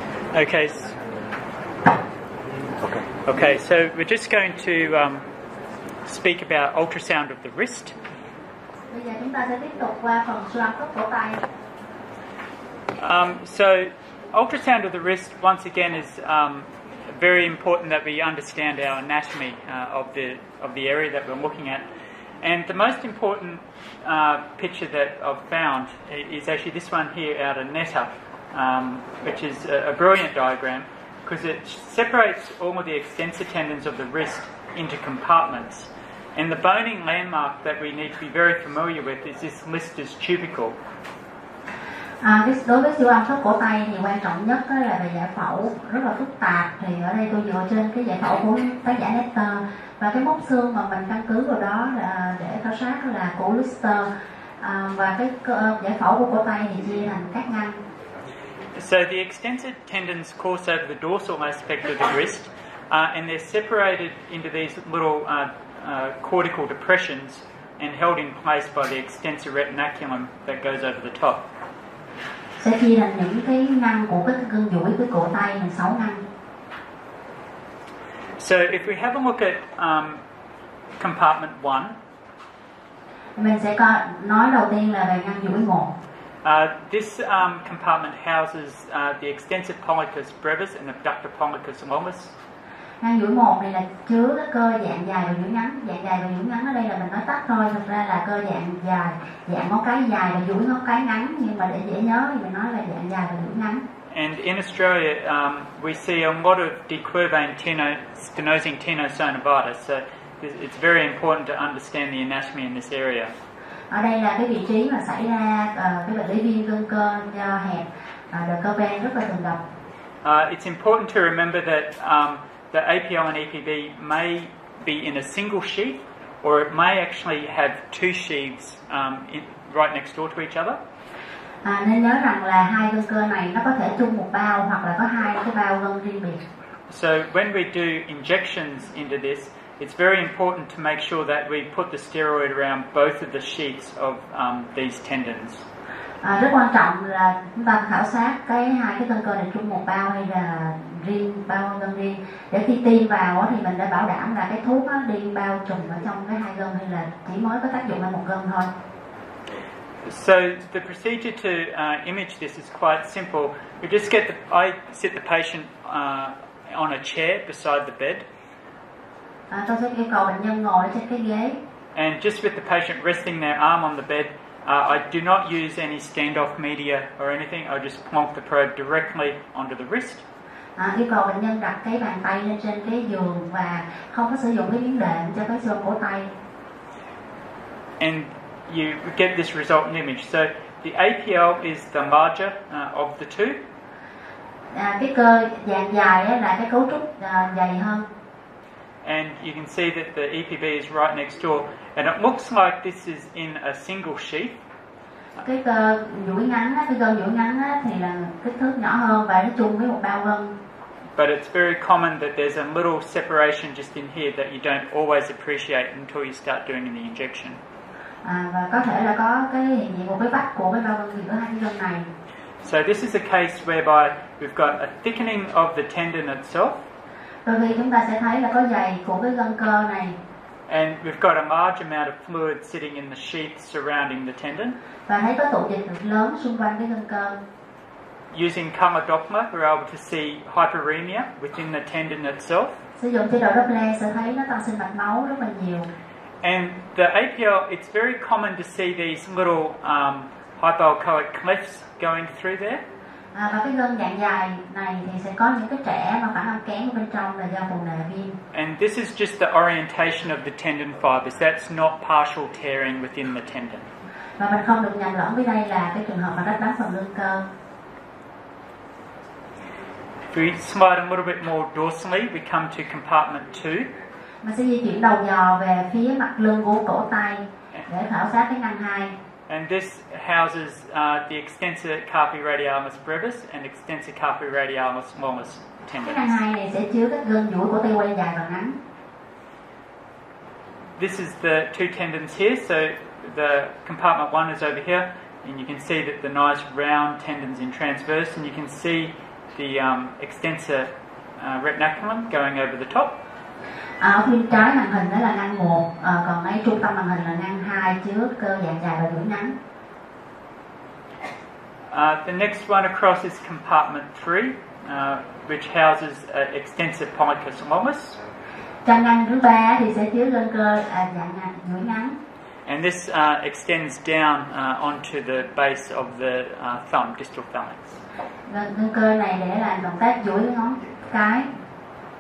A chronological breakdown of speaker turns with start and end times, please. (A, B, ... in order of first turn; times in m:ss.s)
0:00.3-0:01.0 A
0:02.8-0:05.2 A
0:06.1-0:08.0 A
0:08.9-0:11.4 B
0:13.0-0:21.9 A
0:22.4-0:40.8 A
0:42.2-0:57.8 B
0:58.8-1:11.5 A
1:12.6-1:16.2 B
1:18.4-1:20.2 A
1:21.0-1:22.0 A
1:23.4-1:25.9 B
1:26.4-1:32.3 A
1:33.0-1:43.8 B
1:44.1-1:53.3 A
1:53.9-1:59.6 B
2:00.2-2:10.8 A
2:11.6-2:16.4 B
2:16.9-2:25.7 A
2:26.2-2:38.7 B
2:40.0-2:48.3 A
2:49.5-2:51.6 B
2:52.0-3:00.2 A
3:00.8-3:06.3 B
3:08.0-3:13.6 A
3:14.7-3:18.1 B
3:19.0-3:24.6 A
3:25.4-3:30.6 B
3:31.2-3:37.6 A
3:38.2-3:42.1 B
3:42.6-3:46.8 A
3:47.5-3:50.2 B
3:50.7-3:54.8 A
3:55.1-3:57.4 B
3:58.3-4:02.8 A
4:03.0-4:05.9 B
4:06.4-4:12.8 A
4:13.3-4:18.4 B
4:18.5-4:23.9 A
4:24.4-4:27.5 B
4:30.3-4:33.9 A
4:34.4-4:39.2 B
4:39.5-4:46.4 A
4:46.0-4:48.8 B
4:51.0-5:03.2 A
5:04.0-5:09.6 B
5:11.9-5:18.2 A
5:18.8-5:22.2 B
5:22.7-5:28.0 A
5:28.5-5:31.5 B